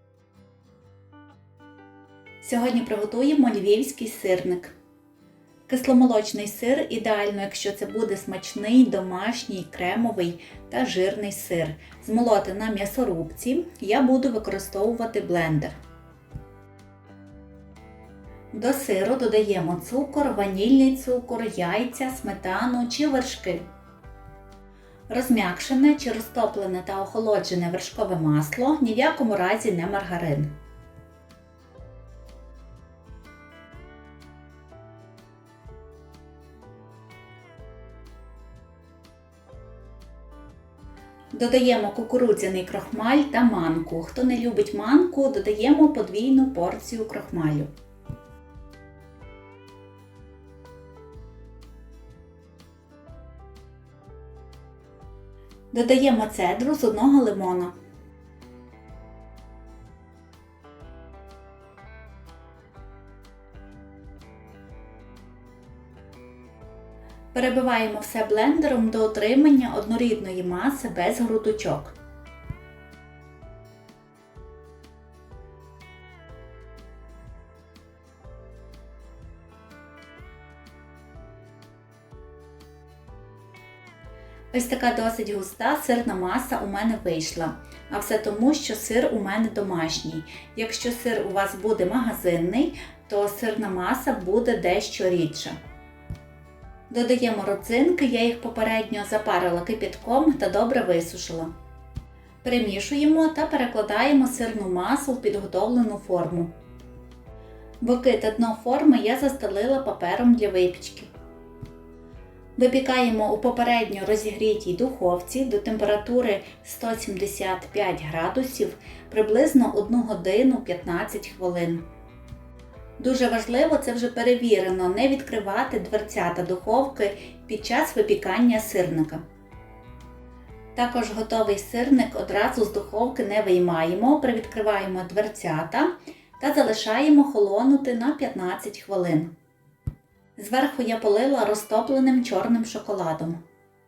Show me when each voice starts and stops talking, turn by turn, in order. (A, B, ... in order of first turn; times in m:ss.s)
0:02.4-0:04.7 A
0:05.7-0:15.7 A
0:18.5-0:23.6 A
0:25.1-0:30.5 A
0:41.3-0:47.7 A
0:55.7-0:57.7 A
1:07.3-1:11.9 A
1:24.5-1:35.6 A
1:36.9-1:41.5 A
1:42.4-1:46.5 A
1:47.8-1:51.1 A
1:52.6-2:01.8 A
2:03.0-2:09.2 A
2:10.7-2:19.3 A
2:20.4-2:23.4 A